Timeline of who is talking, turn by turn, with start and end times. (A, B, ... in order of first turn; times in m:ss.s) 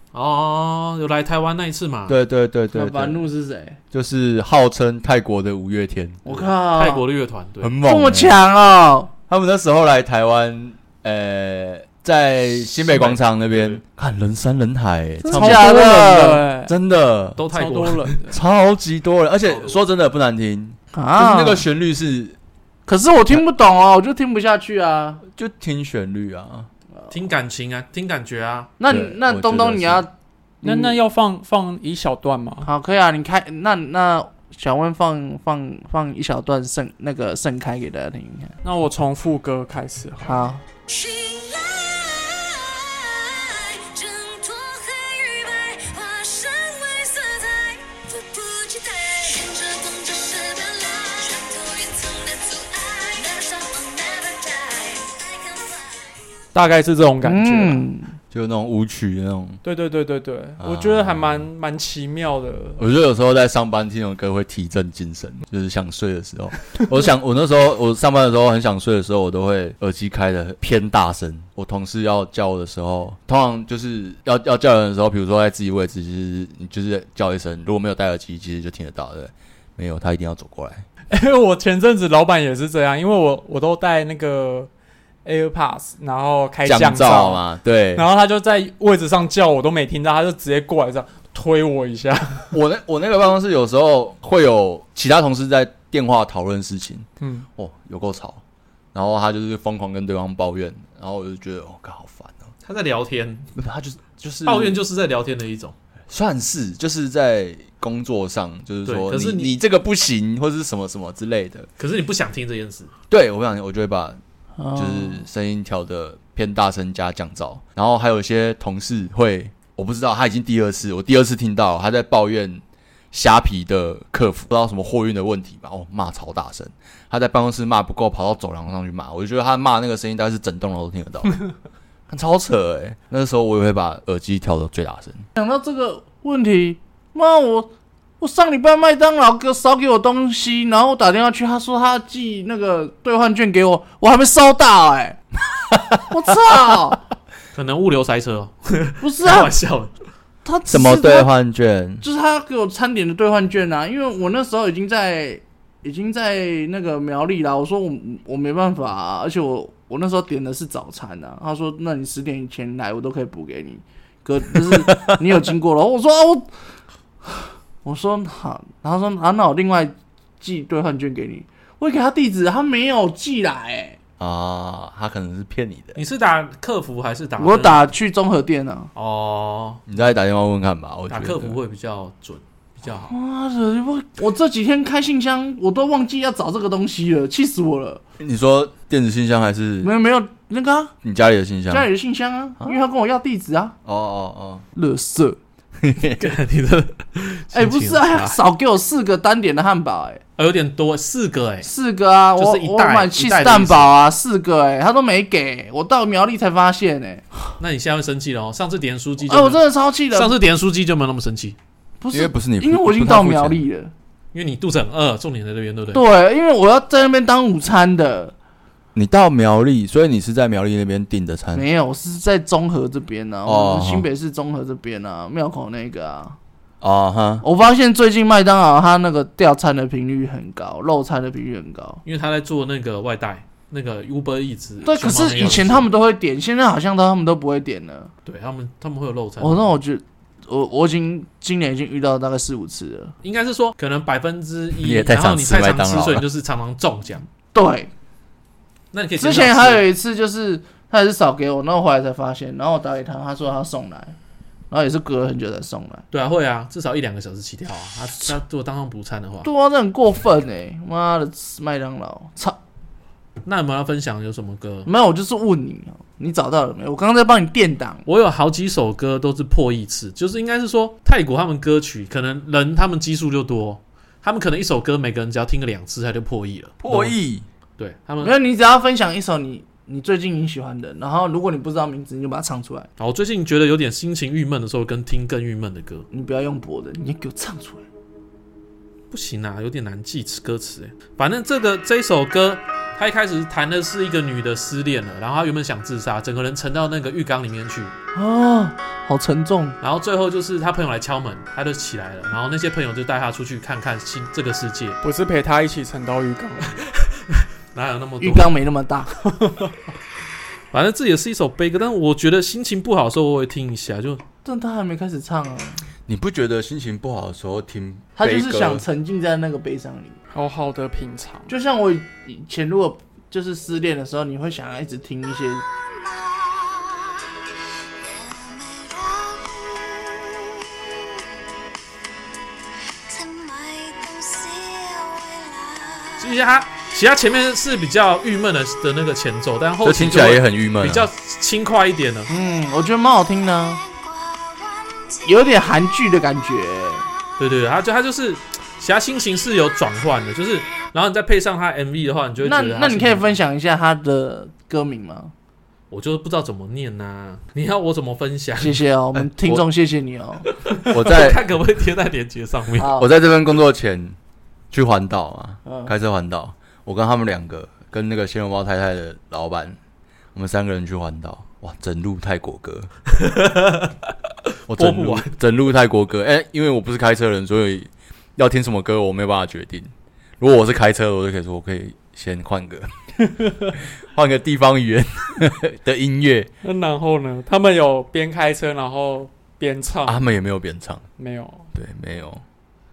0:00.1-0:02.2 A
0:02.1-0:03.2 B
0:02.7-0:03.8 C
0:03.9-0:06.5 B
0:06.2-0:07.0 C
0:06.7-0:07.7 A
0:07.6-0:08.4 B
0:07.8-0:09.1 C
0:09.3-0:17.4 B
0:12.9-0:13.8 A
0:15.2-0:16.4 C
0:15.3-0:16.8 D
0:17.4-0:18.2 A
0:17.5-0:18.4 D
0:18.3-0:22.4 B
0:19.4-0:19.8 A
0:20.9-0:21.6 C
0:22.9-0:25.2 C
0:25.4-0:26.7 B
0:27.1-0:28.7 A
0:28.8-0:30.1 C
0:28.9-0:30.0 B
0:30.6-0:31.0 C
0:30.6-0:32.7 D
0:32.6-0:38.6 C
0:38.6-0:40.5 D
0:40.2-0:40.6 C
0:40.9-0:56.1 E
0:56.5-0:57.8 D
0:57.2-0:58.1 C
0:58.3-0:59.6 B
0:59.6-1:02.8 D
1:00.6-1:01.4 B
1:02.8-1:20.8 B
1:21.1-1:24.7 D
1:25.2-1:32.6 D
1:26.6-1:28.0 B
1:32.5-1:37.1 B
1:37.2-1:37.5 D
1:37.6-1:38.4 B
1:38.9-1:42.5 B
1:42.6-1:43.5 A
1:43.6-1:44.8 B
1:44.4-1:45.8 A
1:46.1-1:51.7 B
1:48.8-1:49.5 A
1:51.8-1:52.9 A
1:53.1-1:54.2 B
1:54.6-1:55.2 C
1:54.8-2:11.4 B
2:12.1-2:15.2 B
2:15.4-2:17.7 C
2:18.2-2:25.2 C
2:26.1-2:27.0 C
2:27.5-2:29.9 A
2:29.0-2:29.5 C
2:30.4-2:31.3 C
2:30.7-2:32.0 B
2:32.0-2:46.5 C
2:47.3-2:54.0 C
2:54.2-2:56.0 B
2:56.0-2:57.8 A
2:57.4-2:58.9 C
2:59.0-2:59.8 A
2:59.9-3:01.6 B
3:01.1-3:03.1 A
3:02.9-3:08.0 C
3:08.2-3:09.9 B
3:09.8-3:10.9 C
3:11.0-3:11.9 B
3:11.7-3:13.8 C
3:13.9-3:14.6 B
3:14.8-3:15.4 C
3:15.8-3:16.2 B
3:16.2-3:18.4 A
3:17.5-3:20.2 C
3:20.4-3:21.7 A
3:21.6-3:27.2 C
3:22.4-3:23.9 A
3:27.6-3:31.6 A
3:29.3-3:30.4 C
3:32.0-3:33.9 C
3:32.1-3:33.6 B
3:34.3-3:36.0 A
3:35.9-3:38.3 C
3:39.0-3:41.6 B
3:41.5-3:46.4 C
3:43.5-3:44.1 B
3:46.8-3:47.4 B
3:47.4-3:52.0 C
3:52.0-3:55.9 A
3:54.8-3:58.1 C
3:58.2-3:59.7 A
3:59.4-4:03.1 C
4:03.2-4:07.2 A
4:04.8-4:06.2 B
4:07.5-4:07.9 C
4:08.9-4:09.8 A
4:09.2-4:14.1 C
4:14.7-4:16.0 C
4:16.1-4:19.5 A
4:19.4-4:22.6 C
4:23.4-4:24.9 A
4:24.8-4:28.0 C
4:28.0-4:37.2 A
4:36.8-4:37.5 B
4:37.8-4:38.4 A
4:38.2-4:42.9 C
4:43.0-4:46.0 A
4:46.1-4:47.8 C
4:49.1-4:57.9 A
4:58.1-4:59.8 C
4:59.8-5:05.0 A
5:05.0-5:06.8 D
5:07.7-5:08.5 A
5:08.2-5:09.1 C
5:09.2-5:09.7 D
5:10.7-5:14.2 A
5:14.4-5:15.8 C
5:16.1-5:18.8 B
5:18.2-5:20.2 C
5:20.3-5:21.5 D
5:21.5-5:25.6 C
5:28.0-5:30.7 E
5:33.1-5:36.2 E
5:36.2-5:42.3 A
5:39.8-5:41.1 B
5:42.3-5:43.8 C
5:44.8-5:45.2 E
5:45.2-5:47.0 C
5:47.4-5:53.4 A
5:52.4-5:55.3 C
5:55.9-5:58.8 A
5:58.6-6:00.4 C
5:59.1-5:59.6 B
6:00.6-6:02.9 A
6:00.8-6:01.4 B
6:02.8-6:03.1 C
6:03.0-6:04.1 B
6:04.7-6:09.8 B
6:05.6-6:05.9 C
6:10.4-6:12.9 B
6:13.2-6:13.9 A
6:14.7-6:22.9 B
6:14.8-6:15.3 A
6:24.0-6:26.5 B
6:26.6-6:30.2 D
6:30.0-6:31.0 B
6:31.2-6:31.7 D
6:31.8-6:32.4 B